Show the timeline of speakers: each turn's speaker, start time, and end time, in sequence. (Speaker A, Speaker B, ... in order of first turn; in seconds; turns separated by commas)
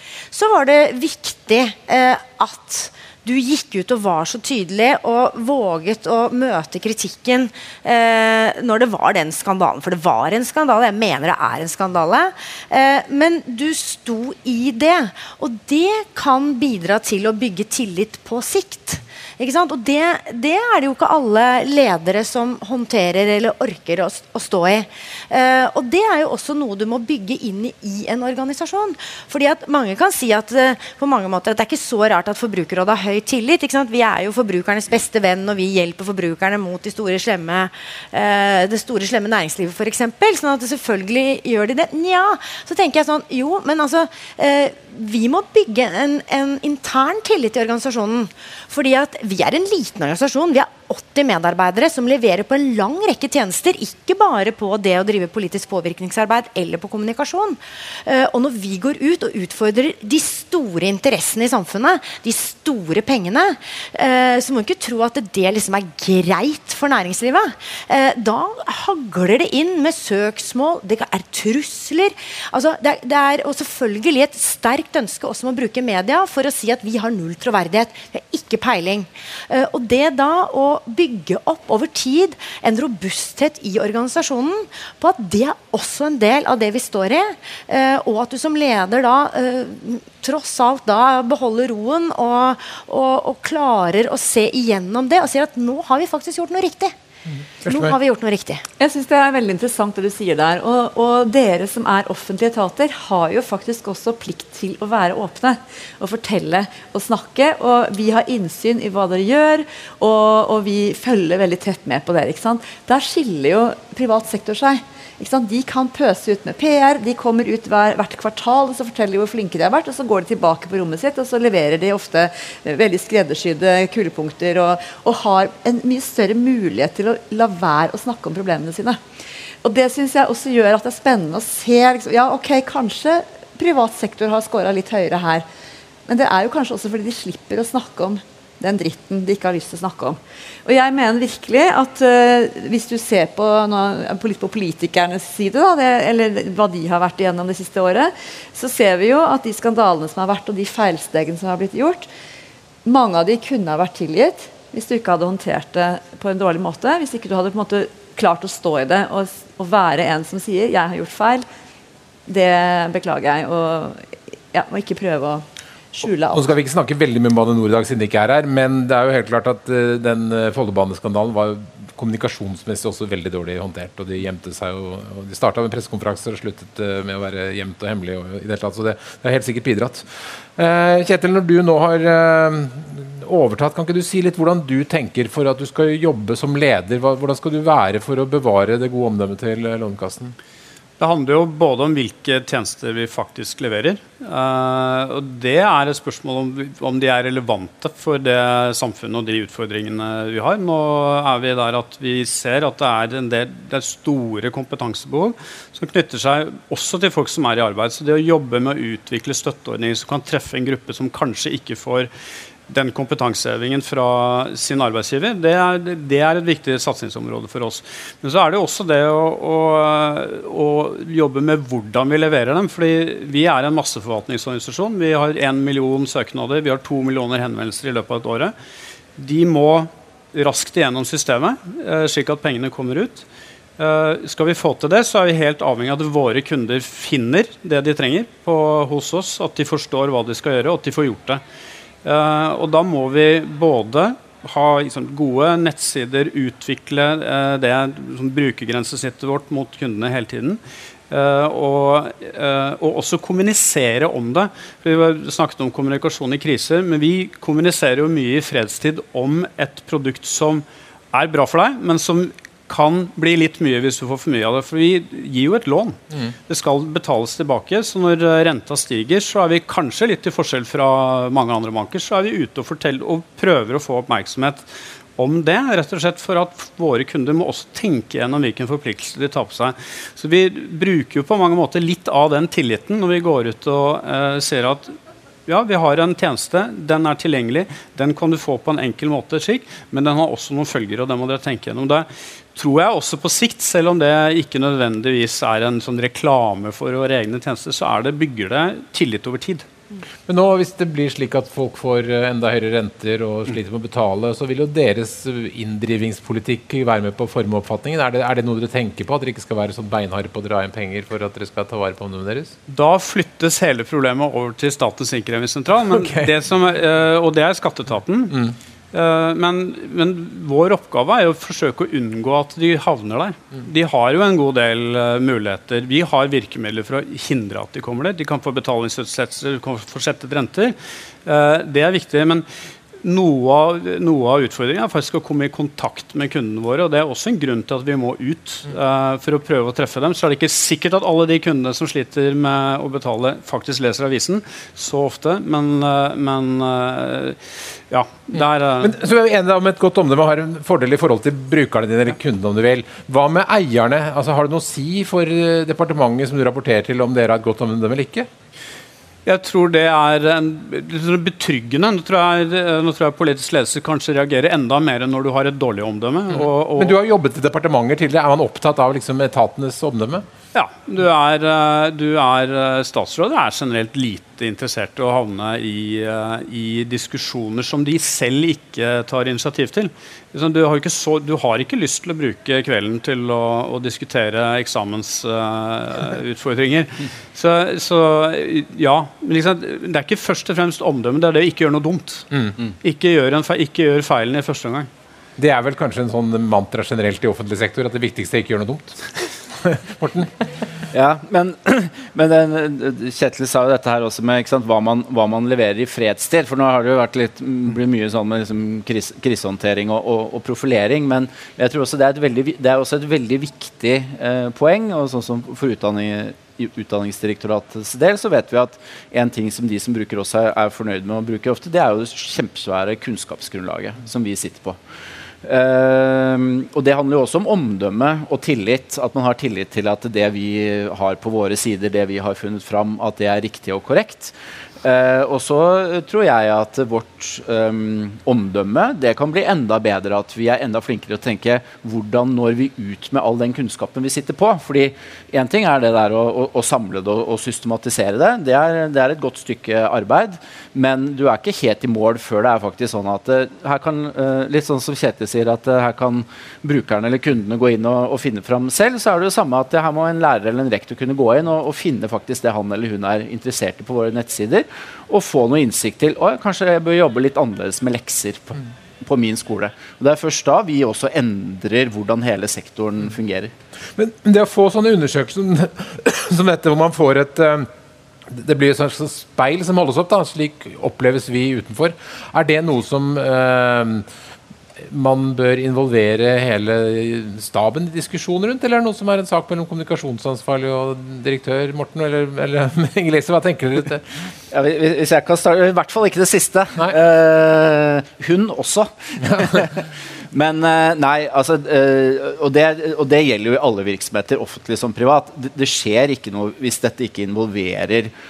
Speaker A: 0.3-96.9, Speaker B: 97.3-97.9, Speaker A: 97.7-98.6, Speaker C: 98.8-129.0, Speaker C: 129.6-135.4, Speaker C: 136.1-152.1, Speaker C: 152.8-161.4, Speaker C: 162.3-166.5, Speaker B: 166.3-190.3, Speaker D: 191.0-212.1, Speaker D: 212.7-228.5, Speaker D: 229.2-233.2, Speaker D: 233.8-241.4, Speaker D: 242.0-284.9, Speaker D: 285.5-299.6, Speaker B: 300.3-312.5, Speaker D: 312.7-318.4, Speaker B: 315.9-316.3, Speaker B: 318.3-318.6, Speaker D: 318.9-332.4, Speaker D: 333.0-348.9, Speaker B: 348.3-358.3, Speaker D: 359.2-367.0, Speaker B: 366.3-370.2, Speaker D: 370.5-394.9, Speaker B: 395.4-399.0, Speaker B: 399.6-400.3, Speaker E: 400.9-424.8, Speaker E: 425.4-473.5, Speaker B: 473.9-477.7, Speaker B: 478.3-484.1, Speaker B: 484.8-494.0, Speaker E: 494.5-508.1